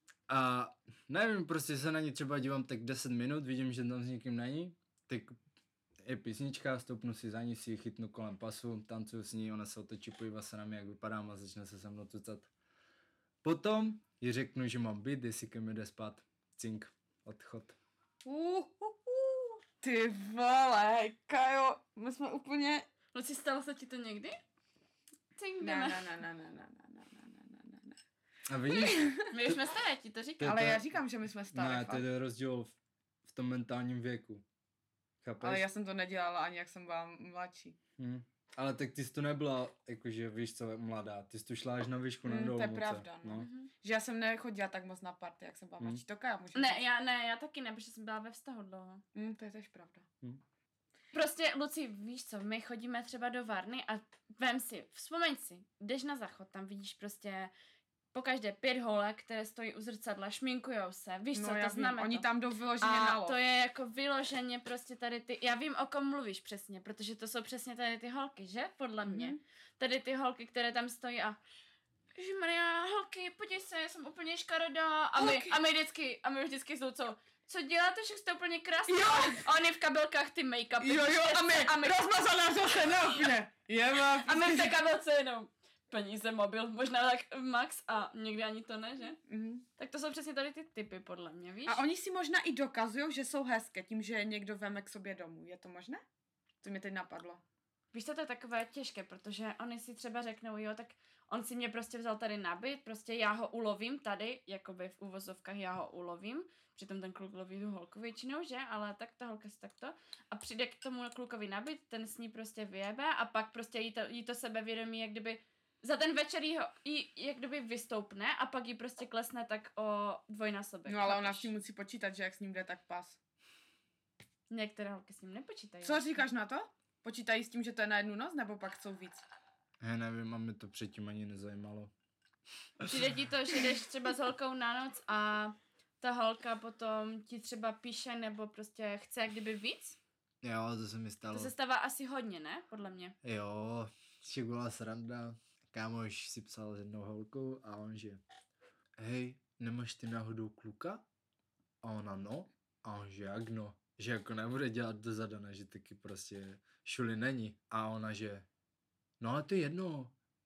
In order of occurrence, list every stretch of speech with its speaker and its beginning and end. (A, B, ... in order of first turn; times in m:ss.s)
0:00.3-0:05.4 A
0:06.0-0:12.5 A
0:13.4-0:17.8 A
0:18.2-0:22.8 B
0:23.1-0:24.4 C
0:25.4-0:26.1 C
0:25.6-0:28.0 B
0:28.5-0:29.2 A
0:28.7-0:29.3 B
0:29.3-0:30.6 C
0:30.4-0:30.8 A
0:30.4-0:32.0 B
0:31.5-0:32.7 A
0:33.2-0:34.4 A
0:35.2-0:35.6 A
0:35.4-0:37.8 B
0:38.0-0:43.5 A
0:42.2-0:46.8 B
0:43.4-0:43.7 C
0:46.5-0:49.0 C
0:49.1-0:50.0 B
0:51.1-0:57.5 C
0:58.1-1:02.3 C
1:01.3-1:03.4 B
1:02.8-1:11.4 C
1:09.0-1:09.4 B
1:12.2-1:23.3 C
1:15.2-1:15.6 B
1:18.9-1:19.5 B
1:20.8-1:24.8 B
1:24.2-1:29.2 C
1:29.3-1:29.6 B
1:29.8-1:31.8 C
1:31.7-1:36.0 B
1:36.6-1:37.4 B
1:37.9-2:01.5 C
2:00.9-2:03.2 B
2:04.5-2:06.0 C
2:05.8-2:09.2 B
2:09.8-2:11.9 A
2:12.8-2:13.1 A
2:12.9-2:20.0 C
2:20.4-2:21.5 A
2:21.3-2:23.2 C
2:23.2-2:28.2 A
2:29.0-2:31.0 A
2:31.8-2:38.4 A
2:39.2-2:40.1 A